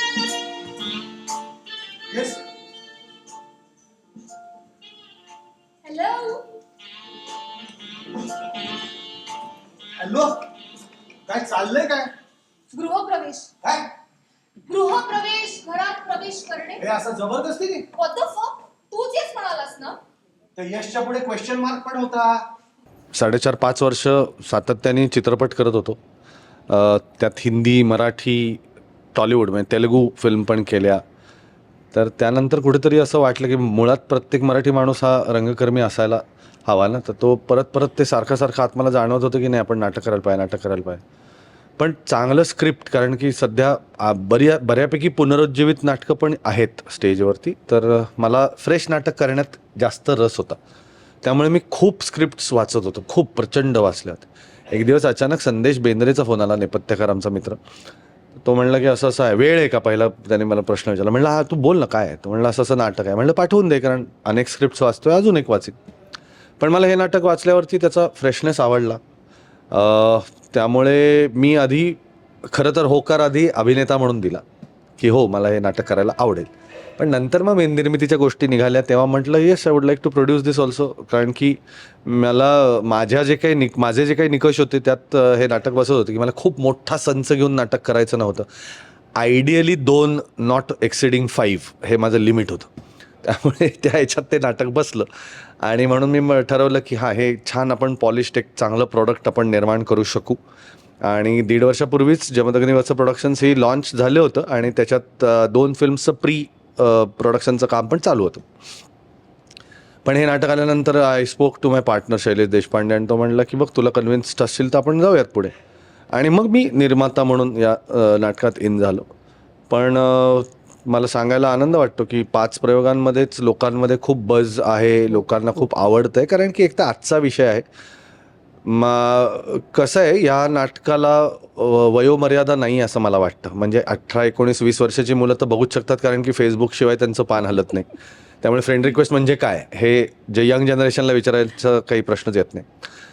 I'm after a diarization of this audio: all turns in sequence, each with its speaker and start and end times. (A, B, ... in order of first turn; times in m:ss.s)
0:02.1-0:02.4 A
0:05.8-0:06.5 B
0:10.0-0:10.4 A
0:11.3-0:12.1 A
0:12.7-0:13.5 B
0:14.7-0:16.8 B
0:16.8-0:17.9 A
0:17.9-0:20.0 B
0:20.6-0:22.4 A
0:23.1-0:26.0 C
0:26.7-0:28.6 C
0:29.1-0:31.0 C
0:31.9-0:41.0 C
0:41.8-0:50.6 C
0:51.2-0:57.6 C
0:58.4-1:05.8 C
1:06.6-1:09.0 C
1:09.7-1:12.0 C
1:12.5-1:14.4 C
1:15.0-1:28.5 C
1:29.2-1:32.7 C
1:33.2-1:35.1 C
1:35.6-1:40.4 C
1:41.0-1:48.4 C
1:50.0-1:55.5 C
1:56.1-1:59.0 C
1:59.7-2:07.7 C
2:08.6-2:17.9 C
2:18.4-2:22.6 C